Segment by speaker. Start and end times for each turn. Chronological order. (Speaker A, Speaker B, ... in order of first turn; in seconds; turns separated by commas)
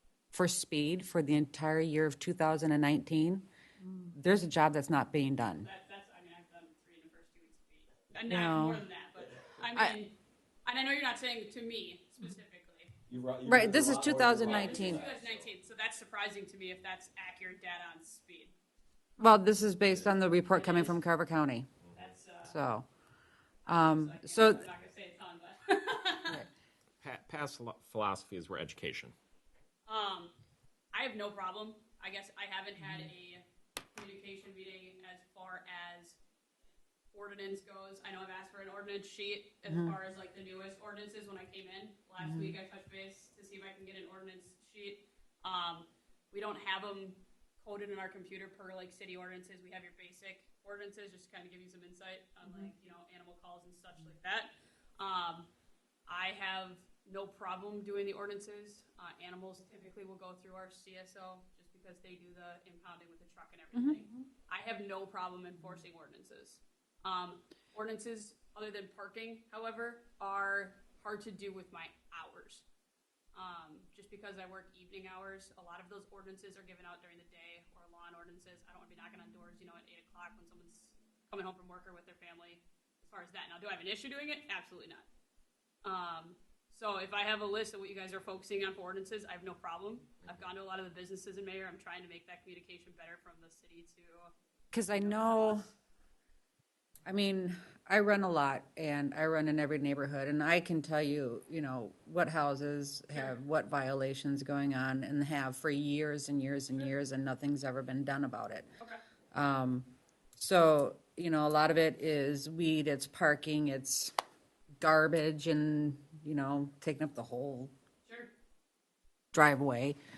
Speaker A: 0.3-3.5, Speaker A: 4.1-5.7, Speaker B: 5.6-12.9, Speaker A: 8.3-8.8, Speaker C: 13.1-15.6, Speaker A: 13.5-15.1, Speaker B: 14.4-18.5, Speaker A: 19.2-21.7, Speaker B: 20.4-21.0, Speaker B: 21.9-22.6, Speaker A: 22.5-22.9, Speaker B: 23.7-26.5, Speaker A: 23.7-24.7, Speaker D: 27.0-29.1, Speaker B: 29.9-30.4, Speaker B: 30.9-33.4, Speaker A: 32.8-33.1, Speaker B: 33.9-36.2, Speaker B: 37.1-55.5, Speaker A: 39.7-40.0, Speaker A: 42.2-42.6, Speaker B: 56.1-72.7, Speaker A: 63.7-64.2, Speaker B: 73.3-85.1, Speaker B: 85.8-94.3, Speaker A: 94.7-95.7, Speaker B: 94.9-95.7, Speaker A: 97.1-108.7, Speaker B: 103.1-103.4, Speaker A: 109.3-114.1, Speaker A: 114.8-117.7, Speaker B: 118.0-118.3, Speaker A: 119.3-120.0